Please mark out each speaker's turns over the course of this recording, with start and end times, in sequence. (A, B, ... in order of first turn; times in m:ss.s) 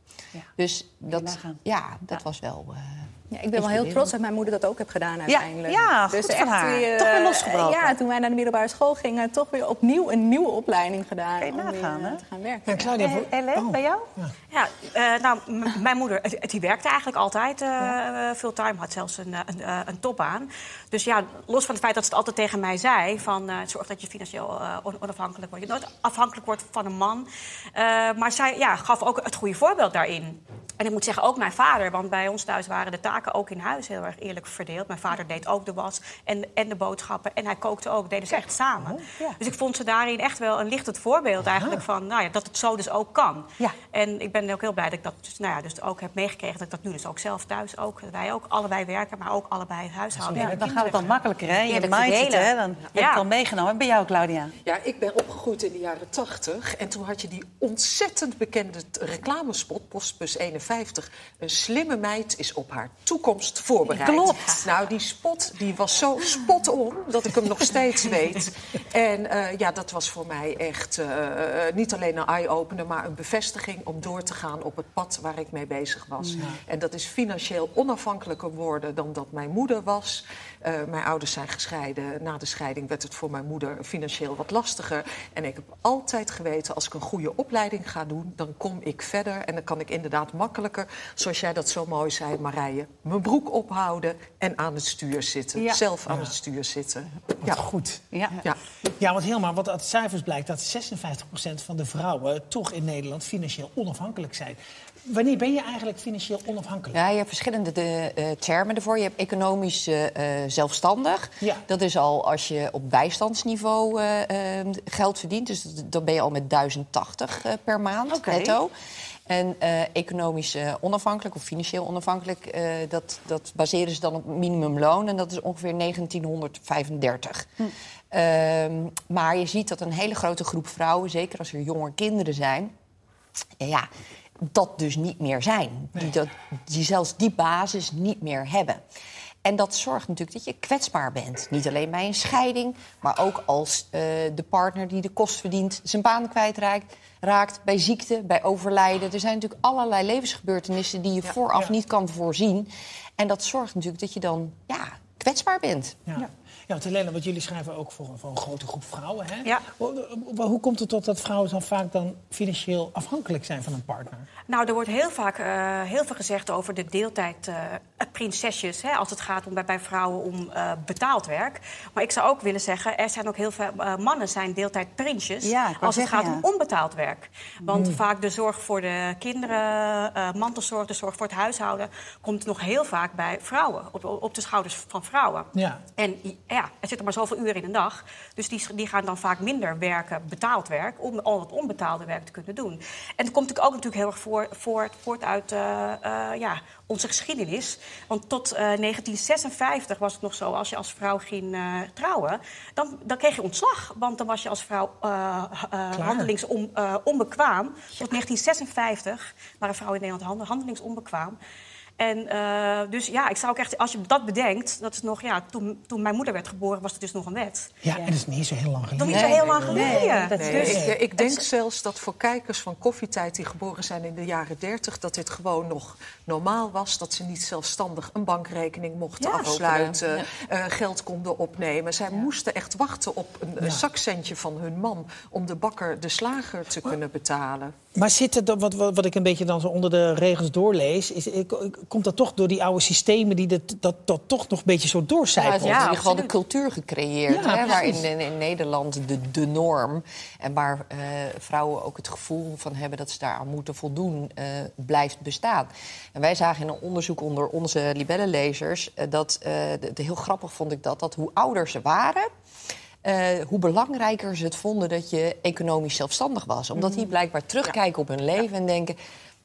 0:00.6-0:04.1 A
0:01.1-0:01.6 B
0:03.3-0:12.8 C
0:05.3-0:07.9 B
0:11.4-0:12.2 B
0:12.6-0:14.3 D
0:12.9-0:14.1 B
0:14.5-0:51.0 E
0:41.5-0:41.8 D
0:50.2-0:51.1 D
0:50.3-0:54.5 B
0:51.7-0:53.2 E
0:54.6-1:37.7 F
1:03.9-1:04.5 B
1:16.4-1:16.6 D
1:35.6-1:35.8 B
1:36.0-1:36.3 D
1:37.4-1:38.0 D
1:38.1-1:38.4 B
1:38.9-1:47.0 D
1:46.9-1:58.7 A
1:58.1-1:58.6 B
1:59.3-2:07.5 A
2:08.1-2:12.7 A
2:13.6-2:13.9 A
2:14.4-2:18.8 A
2:19.4-2:36.0 A
2:36.1-2:44.2 D
2:39.4-2:39.7 E
2:44.5-3:31.4 E
2:55.4-2:56.4 B
2:57.7-2:58.0 D
3:05.5-3:05.8 D
3:25.9-3:26.3 D
3:32.0-3:37.7 E
3:37.8-3:41.0 D
3:37.9-3:38.2 B
3:39.0-3:41.5 E
3:39.0-3:39.4 A
3:39.7-3:40.6 B
3:40.3-3:57.7 F
3:49.4-3:50.0 A
3:53.6-3:53.8 D
3:57.9-4:05.8 D
4:05.4-4:22.3 A
4:05.6-4:06.3 E
4:07.3-4:08.0 D
4:07.4-4:07.8 E
4:23.0-4:29.0 A